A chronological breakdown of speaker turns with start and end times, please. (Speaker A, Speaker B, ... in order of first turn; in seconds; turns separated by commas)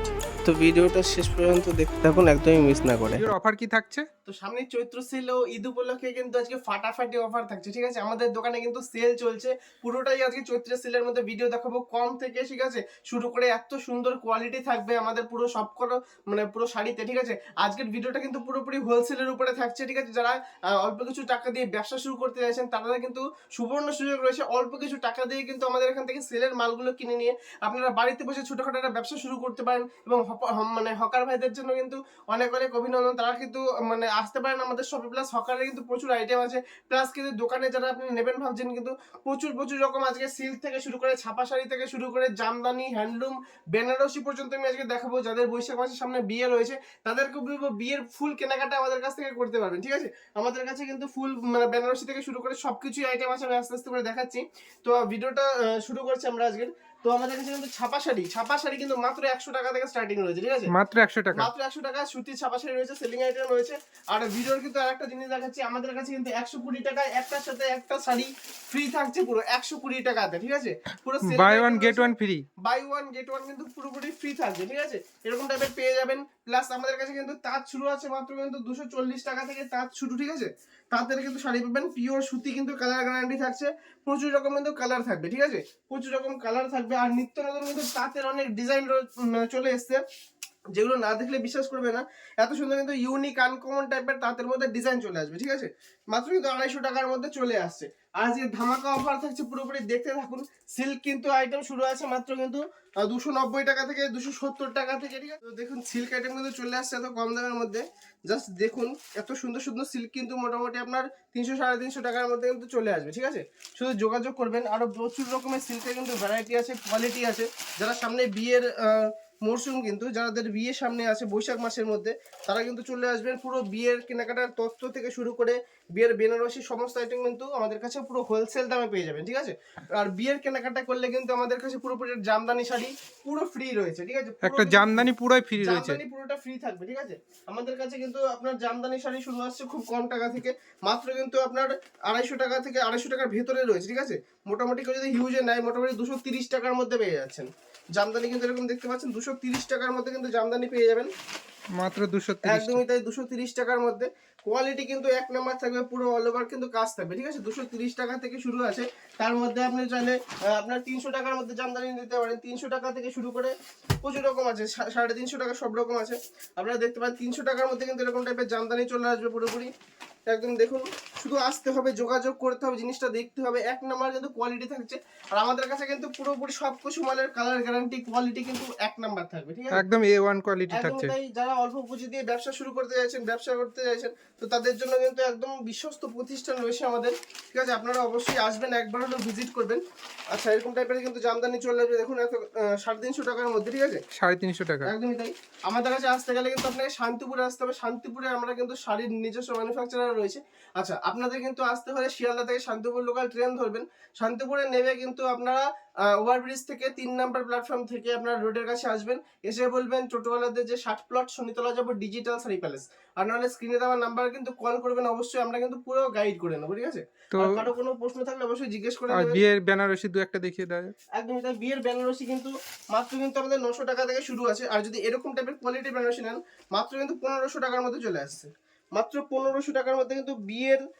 Speaker A: 0.4-3.2, Speaker B: 3.1-4.0, Speaker A: 4.2-60.7, Speaker B: 60.7-61.5, Speaker A: 61.3-72.1, Speaker B: 71.2-72.5, Speaker A: 72.6-90.0, Speaker A: 90.7-135.1, Speaker B: 134.4-136.0, Speaker A: 135.6-151.1, Speaker B: 151.8-152.8, Speaker A: 152.4-163.5, Speaker A: 164.0-169.7, Speaker A: 170.3-179.8, Speaker B: 179.7-181.1, Speaker A: 180.7-194.0, Speaker B: 194.1-194.9, Speaker A: 194.8-219.4, Speaker B: 219.1-220.9, Speaker A: 221.2-230.8